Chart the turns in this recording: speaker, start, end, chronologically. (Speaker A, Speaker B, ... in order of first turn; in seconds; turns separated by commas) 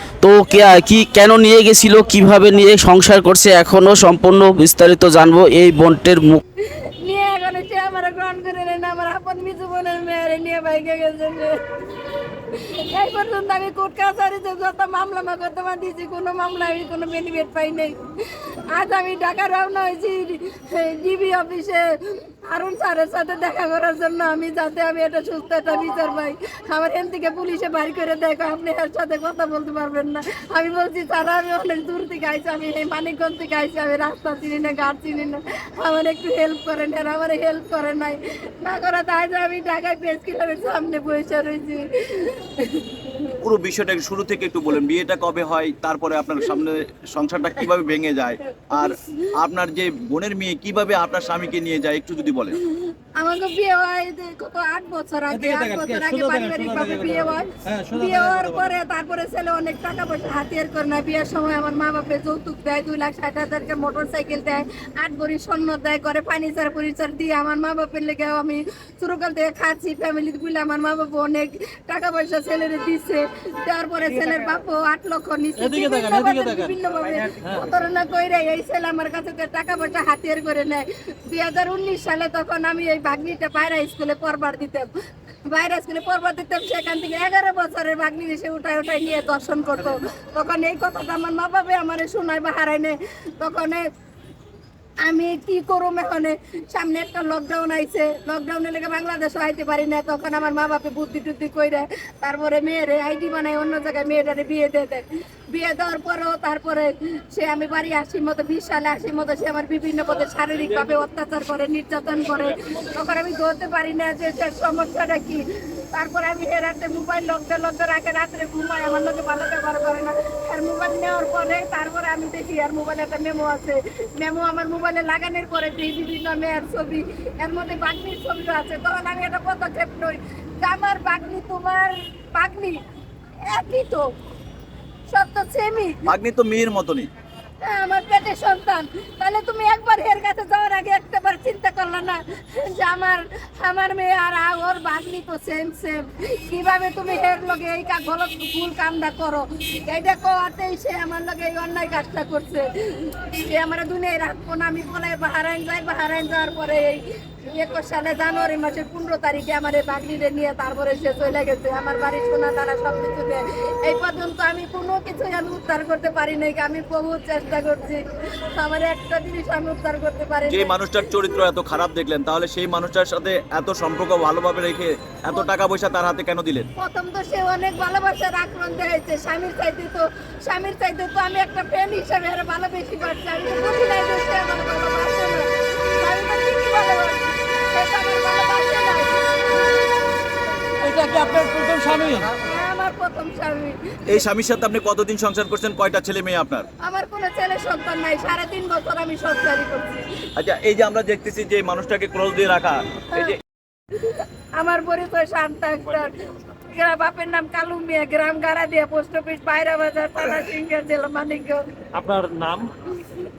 Speaker A: 0.2-6.4, Speaker B: 6.6-43.3, Speaker C: 43.4-52.6, Speaker B: 52.7-84.9, Speaker D: 55.3-58.7, Speaker D: 74.2-74.4, Speaker D: 75.6-77.7, Speaker B: 85.5-93.8, Speaker B: 95.0-132.8, Speaker B: 133.5-134.1, Speaker B: 135.1-136.1, Speaker C: 136.1-137.1, Speaker B: 137.6-168.0, Speaker B: 168.5-171.4, Speaker C: 170.5-176.7, Speaker B: 176.8-189.1, Speaker D: 190.8-192.3, Speaker B: 192.4-194.2, Speaker C: 194.1-196.7, Speaker B: 196.8-200.1, Speaker C: 200.4-203.4, Speaker B: 204.0-206.1, Speaker B: 206.7-211.7, Speaker D: 211.9-212.7